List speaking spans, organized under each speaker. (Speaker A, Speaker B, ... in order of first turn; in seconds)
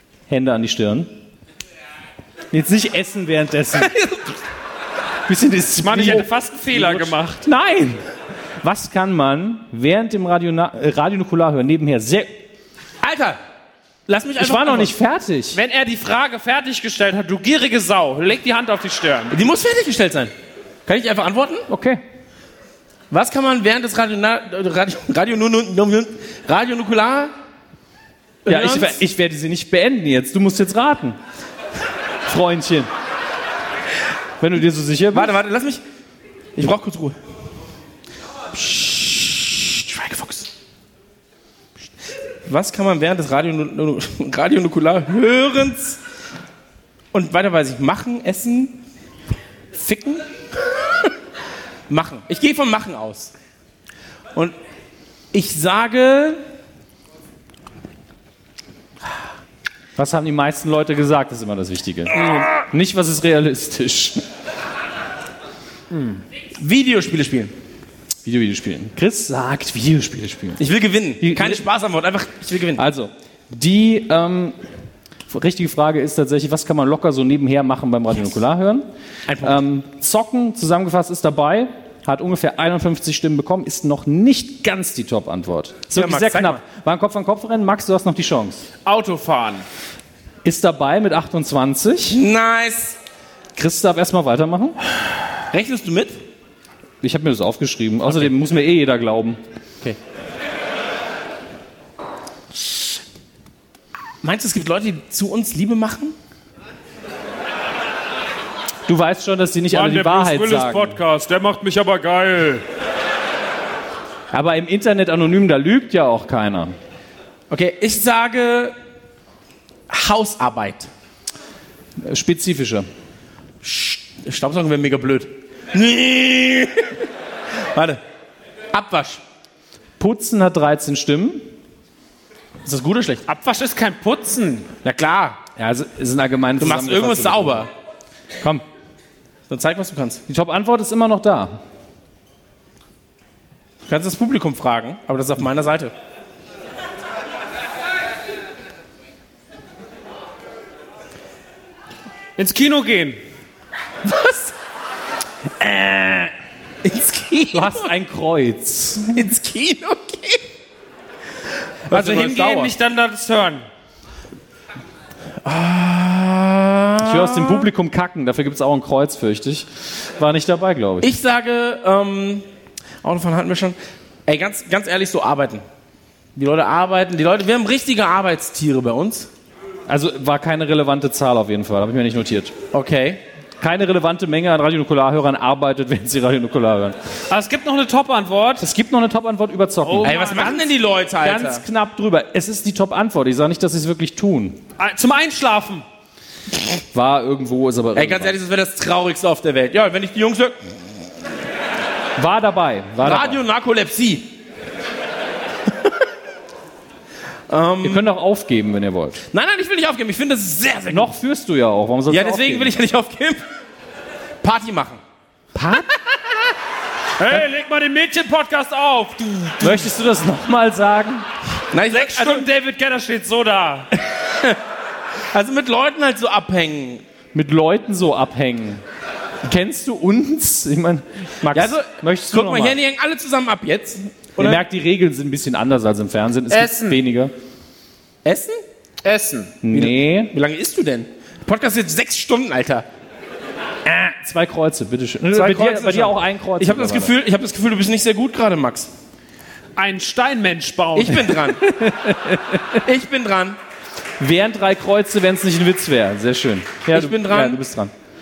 Speaker A: 0.3-1.1, 2.5-4.0, 5.3-8.0, 8.6-12.3, 14.4-15.6, 21.7-22.0, 28.5-31.2, 32.3-32.9, 34.4-35.3, 60.0-64.2, 68.2-70.6, 71.2-71.6, 72.8-74.6, 75.3-78.9, 79.4-88.7, 90.4-92.2, 93.6-94.8, 97.0-99.4, 108.9-111.0, 114.3-116.7, 122.0-122.9, 130.0-131.5, 135.6-137.7, 140.3-141.6, 155.6-156.3, 157.5-159.2, 167.0-171.1, 179.9-182.5, 183.6-187.0, 188.6-190.7, 191.2-194.6, 196.9-198.4, 202.2-203.4, 207.8-209.2, 210.9-212.7, 215.6-215.9, 219.6-221.2, 227.3-228.8, 229.4-232.8, 234.4-237.3, 239.6-240.3, 243.8-247.2, 251.7-252.8, 254.2-257.9
Speaker B: 5.8-7.4, 15.5-19.4, 65.9-66.2, 88.8-89.7, 109.7-112.7, 133.3-134.7, 152.4-153.2, 161.9-163.7, 187.3-188.7, 189.8-190.6, 194.8-195.8, 217.2-219.8, 221.9-223.9, 236.5-237.0, 239.0-239.6, 249.8-251.4
Speaker C: 13.0-13.4, 14.1-14.9, 19.3-20.3, 20.9-21.7, 23.1-27.3, 28.4-29.0, 35.1-35.8, 36.6-37.2, 38.5-40.5, 42.5-46.0, 47.1-48.8, 49.7-50.2, 51.9-53.3, 55.3-56.4, 66.6-67.5, 70.6-72.8, 79.3-79.6, 85.9-86.6, 92.1-93.0, 95.5-96.2, 104.2-106.2, 117.5-118.8, 119.9-120.9, 123.6-127.0, 127.7-128.0, 128.7-129.2, 132.7-133.2, 134.8-135.4, 136.6-137.7, 139.5-140.2, 143.9-145.9, 154.0-154.5, 156.8-157.9, 159.1-160.4, 161.9-162.7, 165.4-167.7, 171.0-172.4, 173.0-175.6, 176.4-179.3, 182.7-183.2, 190.0-191.6, 197.9-200.6, 203.0-204.3, 207.5-208.0, 209.3-211.1, 212.1-213.4, 214.4-215.0, 221.7-222.4, 224.3-224.6, 225.3-227.0, 231.4-234.6, 238.2-238.6, 239.7-242.9, 245.3-248.9, 250.9-251.6, 252.8-253.6, 256.9-257.6